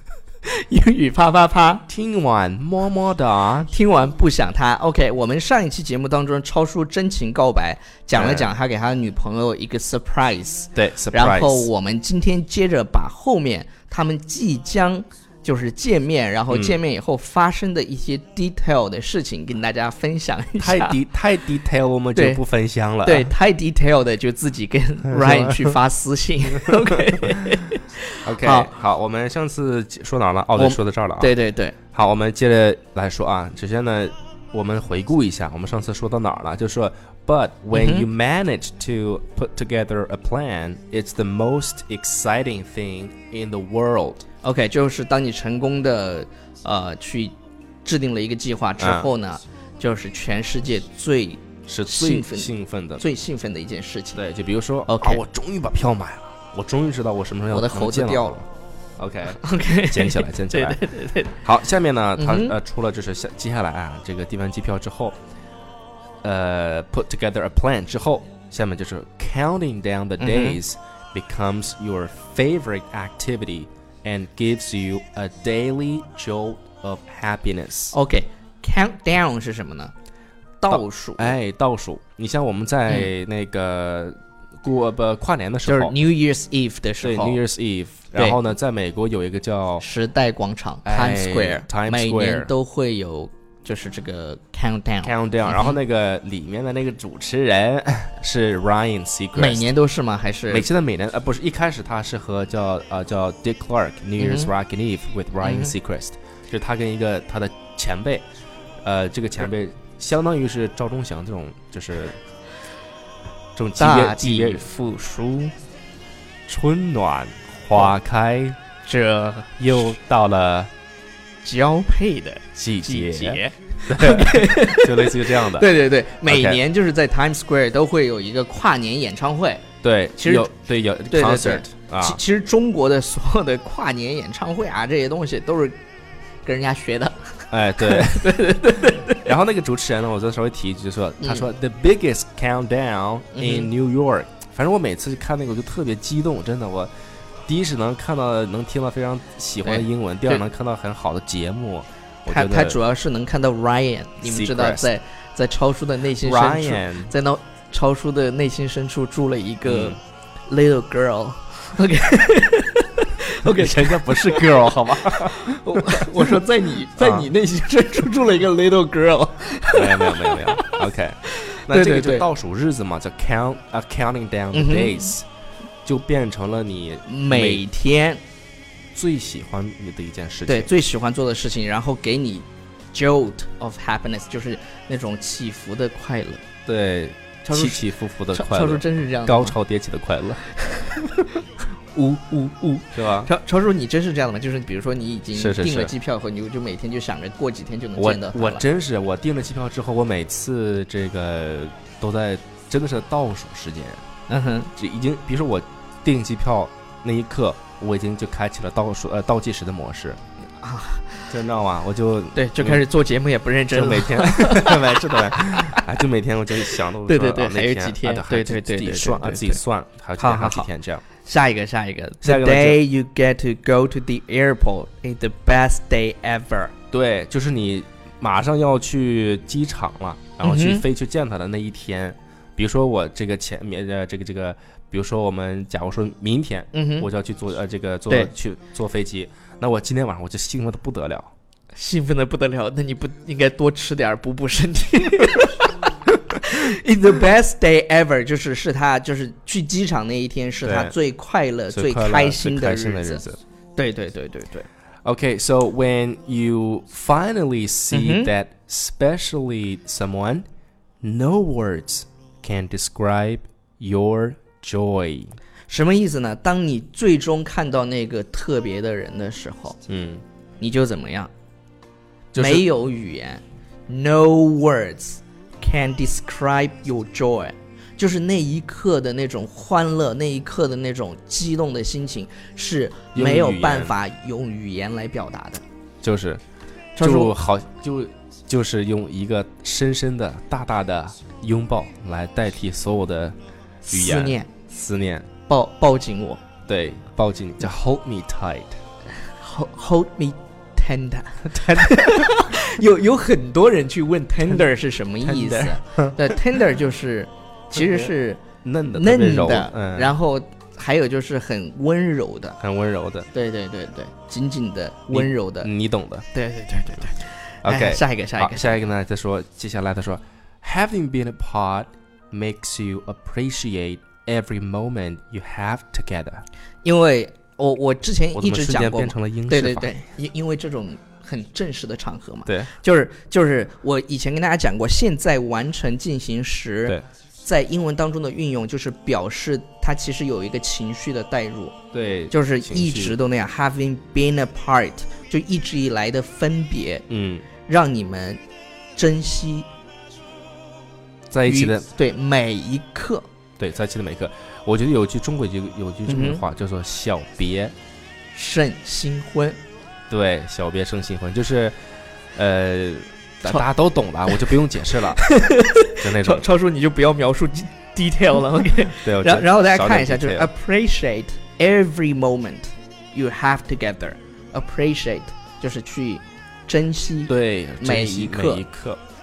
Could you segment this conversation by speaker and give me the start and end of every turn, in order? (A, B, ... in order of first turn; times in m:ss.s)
0:00.4-0:01.8 A
0:01.9-0:03.7 B
0:03.7-0:21.0 A
0:08.1-0:08.5 B
0:10.7-0:11.7 B
0:16.5-0:16.8 B
0:20.6-0:23.3 B
0:22.1-0:22.4 A
0:23.0-0:28.7 A
0:25.1-0:25.7 B
0:28.2-0:31.3 B
0:30.6-0:31.7 A
0:31.9-0:44.2 B
0:37.7-0:38.1 A
0:44.4-0:47.3 A
0:47.8-0:54.2 A
0:48.8-0:49.1 B
0:51.7-0:53.0 B
0:54.1-0:58.4 B
0:54.9-0:55.2 A
0:57.5-0:58.4 A
0:59.0-1:00.8 B
0:59.3-1:01.3 A
1:01.3-1:05.2 B
1:02.2-1:02.5 A
1:06.2-1:17.9 B
1:10.2-1:10.6 A
1:17.9-1:19.9 A
1:20.6-1:21.4 A
1:20.7-1:25.9 B
1:25.6-1:27.4 A
1:27.0-1:29.8 B
1:29.8-1:35.8 A
1:30.8-1:32.5 B
1:35.0-1:39.7 B
1:39.3-1:40.7 A
1:40.5-1:48.2 B
1:44.2-1:44.5 A
1:45.4-1:45.7 A
1:48.8-1:52.2 B
1:53.5-1:54.6 B
1:53.8-1:55.5 A
1:56.5-1:58.6 B
1:58.8-1:59.5 A
1:59.6-2:00.7 B
2:01.4-2:09.6 A
2:02.6-2:05.7 B
2:06.2-2:06.6 B
2:09.8-2:12.2 B
2:10.2-2:10.5 A
2:11.1-2:15.8 A
2:16.4-2:19.3 A
2:17.5-2:18.4 B
2:19.2-2:26.9 B
2:21.2-2:21.5 A
2:23.3-2:23.7 A
2:27.5-2:32.8 B
2:29.6-2:30.4 A
2:32.2-2:40.0 A
2:34.2-2:34.8 B
2:36.2-2:37.1 B
2:39.6-2:40.0 B
2:40.5-2:50.8 A
2:43.4-2:46.4 B
2:47.0-2:47.3 B
2:49.7-2:55.2 B
2:51.4-2:52.2 A
2:54.5-2:55.1 A
2:55.8-2:57.6 B
2:57.0-2:58.2 A
2:58.9-3:00.7 B
3:00.5-3:06.4 A
3:06.6-3:10.4 B
3:07.4-3:09.6 A
3:10.6-3:11.0 A
3:11.9-3:18.6 A
3:12.9-3:13.3 B
3:15.3-3:15.9 B
3:18.0-3:24.0 B
3:24.3-3:24.7 A
3:24.7-3:30.2 B
3:30.6-3:31.3 A
3:31.3-3:32.8 B
3:32.3-3:35.2 A
3:33.7-3:41.0 B
3:36.7-3:39.6 A
3:40.2-3:40.7 A
3:41.2-3:46.7 A
3:42.2-3:42.8 B
3:46.9-4:01.3 B
3:50.4-3:50.8 A
3:56.7-3:57.1 A
4:01.7-4:05.7 A
4:06.3-4:13.2 A
4:10.6-4:10.9 B
4:11.7-4:13.4 B
4:13.8-4:14.7 A
4:15.0-4:20.4 B
4:17.9-4:18.3 A
4:21.0-4:25.4 B
4:25.7-4:29.8 A
4:29.9-4:30.2 B
4:30.6-4:31.3 A
4:32.3-4:32.6 B
4:32.4-4:45.6 A
4:43.1-4:43.9 B
4:46.0-4:46.4 B
4:47.0-4:47.3 A
4:47.0-4:53.4 B
4:53.8-4:54.5 A
4:53.9-4:55.3 B
4:55.5-4:56.4 A
4:56.7-4:58.8 B
4:59.3-5:12.6 A
5:01.4-5:02.3 B
5:05.2-5:06.4 B
5:07.7-5:08.1 B
5:08.6-5:10.1 B
5:12.6-5:13.3 B
5:13.3-5:15.7 A
5:15.1-5:16.2 B
5:16.3-5:18.8 A
5:17.6-5:26.4 B
5:26.8-5:41.8 A
5:28.3-5:29.9 B
5:32.4-5:32.7 B
5:41.9-5:43.2 B
5:42.3-5:47.0 A
5:47.1-5:47.4 B
5:47.6-5:48.4 A
5:49.0-5:49.7 A
5:51.3-5:51.9 B
5:51.4-5:53.3 A
5:53.6-5:57.7 B
5:56.1-5:56.4 A
5:58.3-5:59.6 A
6:00.1-6:01.8 B
6:02.3-6:05.2 B
6:05.2-6:18.6 A
6:06.0-6:06.4 B
6:08.9-6:10.5 B
6:17.3-6:19.0 B